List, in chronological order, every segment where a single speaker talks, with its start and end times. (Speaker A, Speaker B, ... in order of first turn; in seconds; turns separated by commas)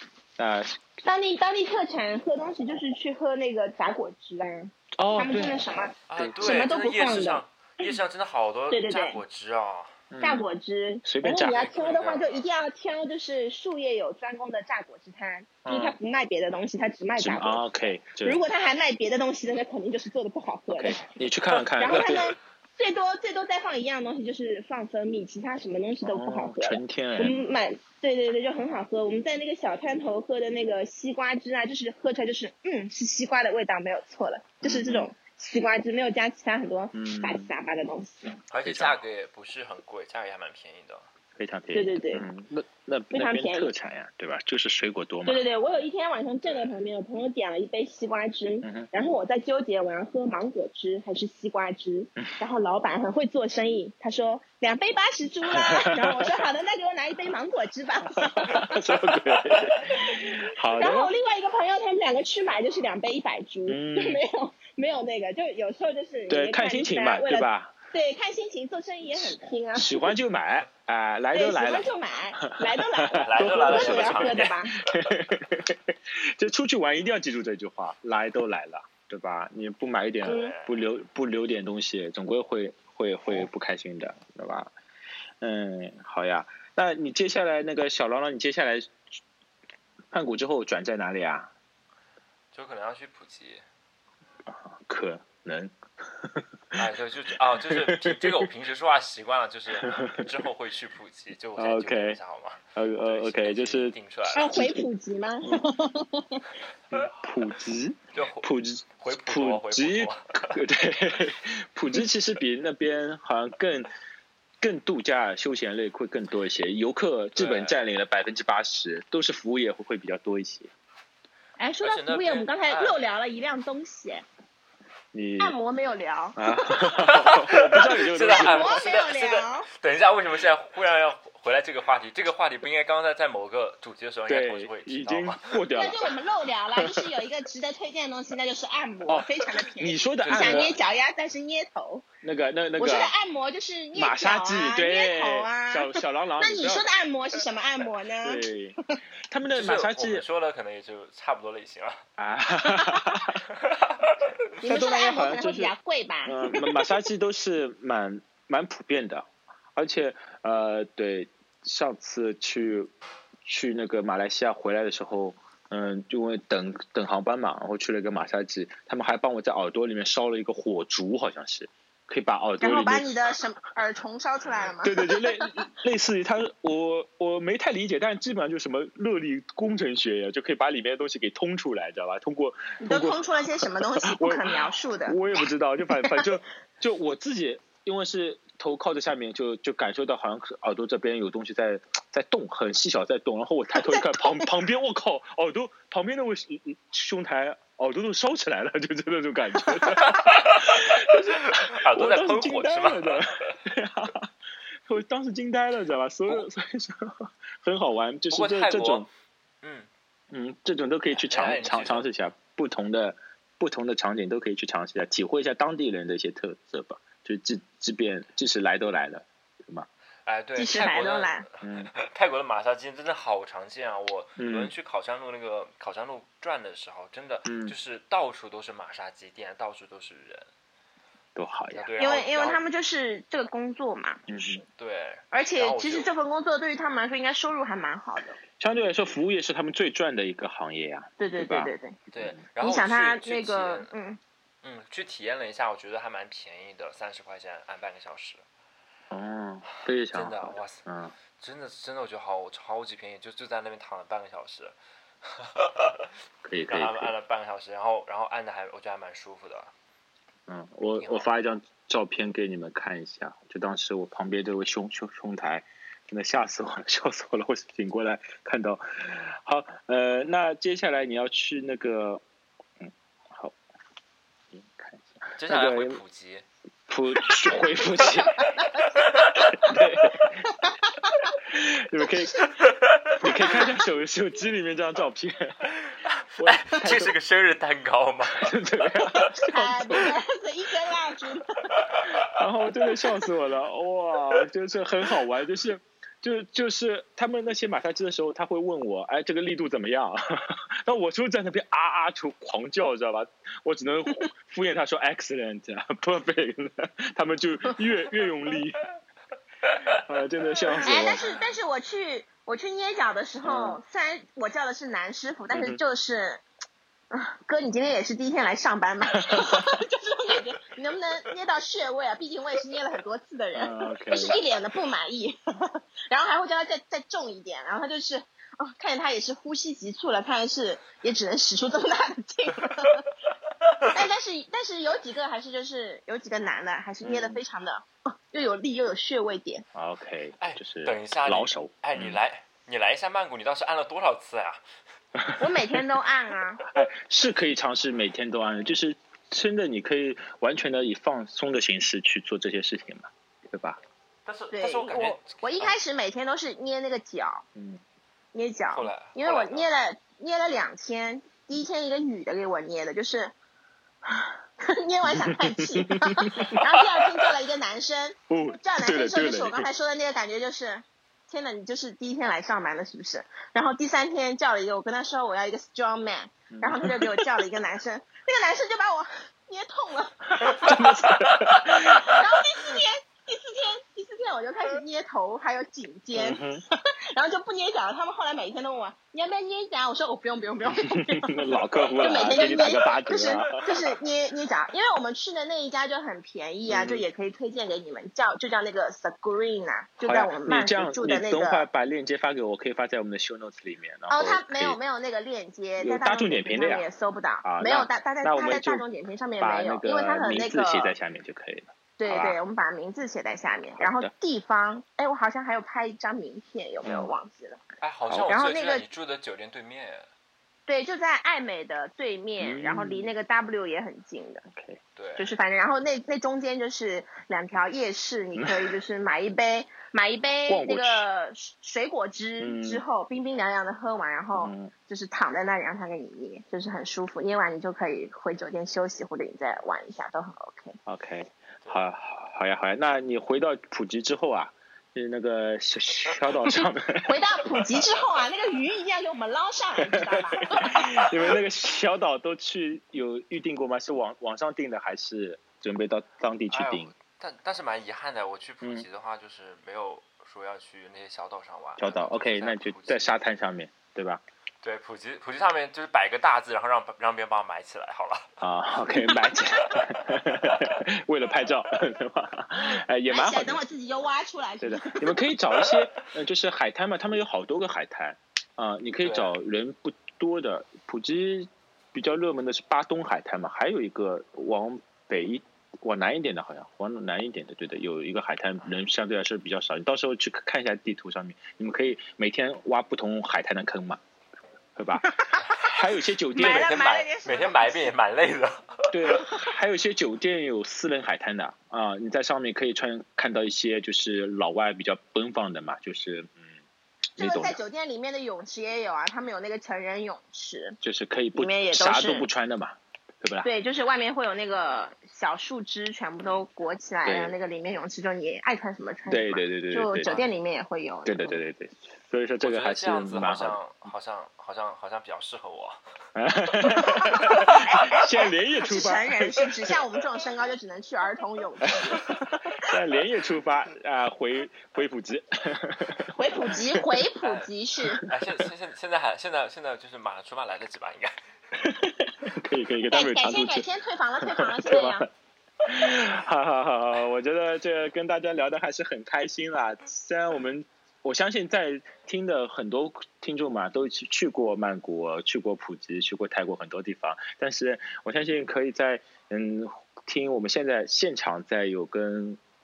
Speaker A: 0.4-0.8, Speaker B: 1.0-7.9, Speaker A: 5.0-5.7, Speaker C: 6.1-9.9, Speaker A: 6.2-6.6, Speaker B: 8.7-9.2, Speaker A: 10.1-10.5, Speaker B: 10.2-21.0, Speaker A: 11.0-11.7, Speaker C: 11.4-12.4, Speaker A: 15.7-16.0, Speaker A: 17.2-18.4, Speaker A: 20.7-22.4, Speaker B: 21.8-38.4, Speaker A: 26.1-27.4, Speaker A: 34.6-35.1, Speaker A: 36.9-37.5, Speaker C: 38.5-41.1, Speaker A: 38.6-39.0, Speaker A: 41.4-45.4, Speaker B: 41.7-42.3, Speaker B: 43.1-43.7, Speaker B: 45.3-70.2, Speaker A: 48.6-48.9, Speaker A: 55.5-56.3, Speaker A: 58.2-61.1, Speaker A: 63.7-64.2, Speaker A: 66.3-67.7, Speaker A: 69.2-71.9, Speaker B: 71.3-74.8, Speaker A: 72.4-84.7, Speaker C: 73.1-75.1, Speaker C: 80.2-80.8, Speaker B: 80.2-80.5, Speaker A: 85.4-89.0, Speaker A: 90.1-91.5, Speaker C: 92.5-93.6, Speaker A: 94.5-96.8, Speaker C: 96.8-104.7, Speaker A: 97.7-98.5, Speaker A: 99.8-100.3, Speaker A: 101.6-102.2, Speaker A: 102.8-103.9, Speaker B: 104.3-106.5, Speaker A: 106.9-113.9, Speaker C: 108.1-110.6, Speaker A: 114.6-120.7, Speaker C: 117.4-117.8, Speaker B: 121.6-124.2, Speaker C: 121.8-123.0, Speaker A: 125.1-125.6, Speaker B: 125.4-127.1, Speaker A: 126.4-128.8, Speaker C: 127.1-135.6, Speaker B: 128.3-129.7, Speaker A: 134.3-136.1, Speaker B: 135.7-142.1, Speaker A: 136.8-137.1, Speaker A: 139.1-140.8, Speaker C: 140.2-140.8, Speaker A: 142.2-143.1, Speaker B: 142.8-149.0, Speaker A: 143.9-146.9, Speaker A: 148.2-148.8, Speaker A: 149.3-150.2, Speaker C: 149.5-152.0, Speaker A: 152.2-153.4, Speaker C: 153.5-154.2, Speaker B: 154.6-156.9, Speaker A: 154.6-155.7, Speaker A: 156.2-162.9, Speaker A: 163.4-173.2, Speaker B: 172.6-175.5, Speaker A: 174.8-204.3, Speaker B: 182.8-186.3, Speaker B: 193.7-194.4, Speaker C: 200.0-203.3, Speaker A: 204.9-209.1, Speaker C: 208.3-209.1, Speaker C: 209.6-209.9, Speaker A: 210.3-219.9, Speaker C: 211.1-212.2, Speaker C: 220.3-230.5, Speaker B: 220.6-221.4, Speaker A: 221.6-221.9, Speaker A: 224.4-224.7, Speaker A: 227.5-227.8, Speaker A: 231.3-231.9, Speaker C: 231.7-232.6, Speaker B: 232.0-234.3, Speaker A: 234.3-234.6, Speaker C: 234.7-236.1, Speaker B: 235.3-238.4, Speaker A: 238.6-242.4, Speaker B: 241.2-242.0, Speaker C: 242.1-243.9, Speaker B: 242.6-244.2, Speaker C: 244.6-248.4, Speaker A: 249.1-251.1, Speaker C: 250.1-250.8, Speaker C: 251.4-256.1, Speaker A: 256.4-257.1, Speaker C: 256.7-259.7, Speaker A: 260.5-272.2, Speaker C: 261.0-261.3, Speaker A: 272.8-273.6, Speaker A: 274.5-276.0, Speaker C: 275.4-276.4, Speaker A: 276.9-278.6, Speaker B: 278.2-278.9, Speaker C: 279.0-279.5, Speaker A: 279.4-280.5, Speaker B: 280.6-281.3, Speaker A: 281.4-282.5, Speaker B: 282.0-282.5, Speaker C: 282.6-283.1, Speaker A: 283.2-285.7, Speaker A: 286.4-287.1, Speaker C: 286.4-289.2, Speaker A: 288.4-290.1, Speaker B: 289.5-291.8, Speaker A: 292.0-308.9, Speaker A: 309.9-311.2, Speaker C: 310.8-311.3, Speaker B: 310.8-316.4, Speaker A: 313.4-313.8, Speaker A: 315.5-315.8, Speaker B: 317.1-333.1, Speaker A: 319.1-319.7, Speaker A: 323.6-324.4, Speaker B: 333.9-339.7, Speaker A: 337.0-337.4, Speaker A: 339.8-342.2, Speaker C: 340.4-344.6, Speaker B: 345.4-346.6, Speaker A: 346.7-353.8, Speaker C: 354.3-355.8, Speaker B: 354.5-357.4, Speaker A: 357.6-357.8, Speaker B: 358.3-363.3, Speaker C: 358.7-359.7, Speaker B: 364.6-381.3, Speaker A: 365.1-367.2, Speaker A: 368.3-369.7, Speaker A: 376.5-377.3, Speaker A: 380.4-382.2, Speaker C: 381.3-381.6, Speaker B: 381.9-401.7, Speaker A: 386.1-386.6, Speaker A: 390.7-393.7, Speaker A: 396.7-397.1, Speaker A: 400.0-404.8, Speaker B: 404.1-410.9, Speaker A: 405.8-406.9, Speaker A: 407.4-408.9, Speaker A: 409.4-412.4, Speaker B: 412.0-417.6, Speaker A: 413.8-414.1, Speaker A: 416.8-417.1, Speaker C: 417.8-420.1, Speaker A: 418.1-418.4, Speaker B: 418.3-418.9, Speaker B: 420.7-424.5, Speaker A: 422.4-423.1, Speaker A: 424.5-424.8, Speaker C: 425.0-425.3, Speaker B: 425.2-440.8, Speaker A: 430.5-431.1, Speaker A: 432.4-432.8, Speaker A: 434.4-434.7, Speaker A: 440.9-447.8, Speaker B: 446.5-451.1, Speaker A: 449.8-456.9, Speaker C: 456.5-463.2, Speaker A: 461.8-464.2, Speaker C: 464.6-468.2, Speaker A: 468.4-473.6, Speaker B: 473.1-475.3, Speaker A: 474.6-494.0, Speaker C: 479.0-479.4, Speaker A: 494.8-496.7, Speaker B: 495.0-495.5, Speaker B: 496.3-497.9, Speaker C: 496.4-498.9, Speaker A: 498.9-506.5, Speaker A: 507.2-507.6, Speaker B: 507.2-510.8, Speaker A: 510.8-513.5, Speaker B: 511.4-512.3, Speaker B: 513.4-521.4, Speaker A: 517.0-517.3, Speaker A: 519.1-520.2, Speaker A: 521.0-523.6, Speaker C: 522.4-525.8, Speaker A: 526.2-529.6, Speaker B: 526.7-532.5, Speaker A: 531.7-536.8, Speaker B: 536.1-538.0, Speaker C: 537.2-537.5, Speaker C: 538.0-541.1, Speaker A: 541.5-543.7, Speaker B: 542.9-545.1, Speaker A: 544.3-545.1, Speaker A: 545.6-562.4